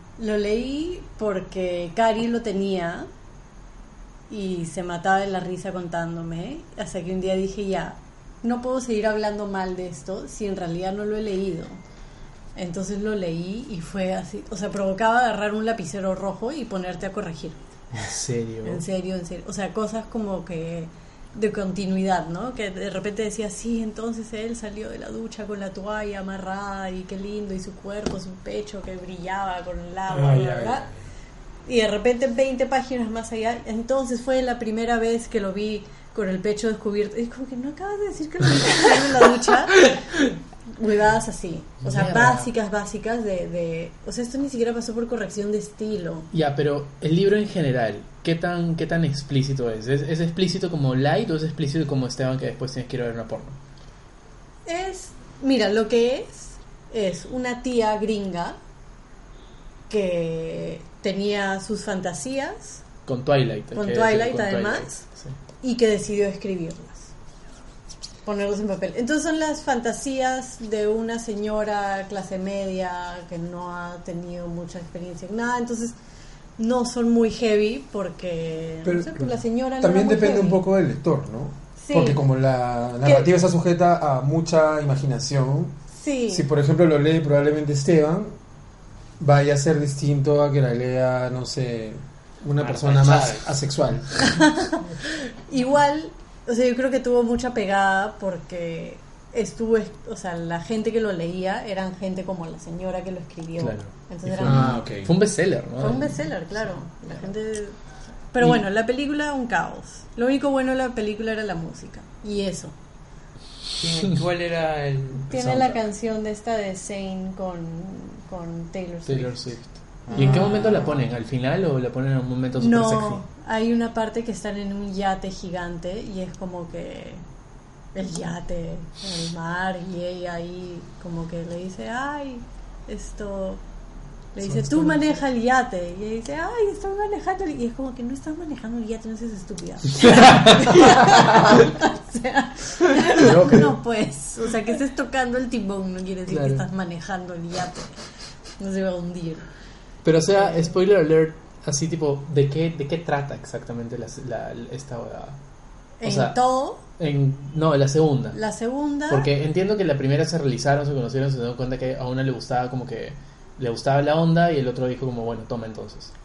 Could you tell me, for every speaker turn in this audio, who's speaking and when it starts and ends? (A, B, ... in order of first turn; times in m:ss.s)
0:00.2-0:03.1 A
0:04.3-0:11.8 A
0:12.6-0:17.6 A
0:18.0-0:18.8 B
0:18.6-0:30.9 A
0:30.1-0:30.9 C
0:31.6-0:40.0 A
0:40.7-0:46.3 A
0:41.8-0:42.5 B
0:46.3-0:53.6 B
0:54.7-0:58.6 A
0:59.9-1:02.8 A
1:03.1-1:05.4 B
1:03.7-1:05.0 A
1:05.6-1:07.1 A
1:08.2-1:15.9 A
1:16.6-1:20.6 A
1:18.8-1:25.8 C
1:21.8-1:22.2 A
1:23.0-1:23.3 A
1:25.9-1:26.4 A
1:26.3-1:28.3 C
1:29.2-1:34.4 C
1:32.6-1:33.5 D
1:34.2-1:34.8 A
1:35.5-1:44.8 A
1:43.6-1:46.2 B
1:44.4-1:45.1 C
1:45.8-1:47.8 A
1:48.3-1:52.7 A
1:53.8-1:55.3 D
1:55.3-1:59.4 A
1:55.3-1:55.7 C
1:59.0-2:03.2 B
2:00.1-2:01.1 D
2:02.6-2:07.2 A
2:08.0-2:13.6 A
2:14.3-2:28.0 A
2:14.4-2:15.0 C
2:20.0-2:20.9 B
2:23.1-2:23.8 C
2:26.3-2:26.6 B
2:28.6-2:29.5 A
2:30.0-2:35.4 B
2:30.3-2:30.8 A
2:36.0-2:36.8 A
2:36.0-2:38.4 B
2:38.3-2:39.3 A
2:39.1-2:46.1 B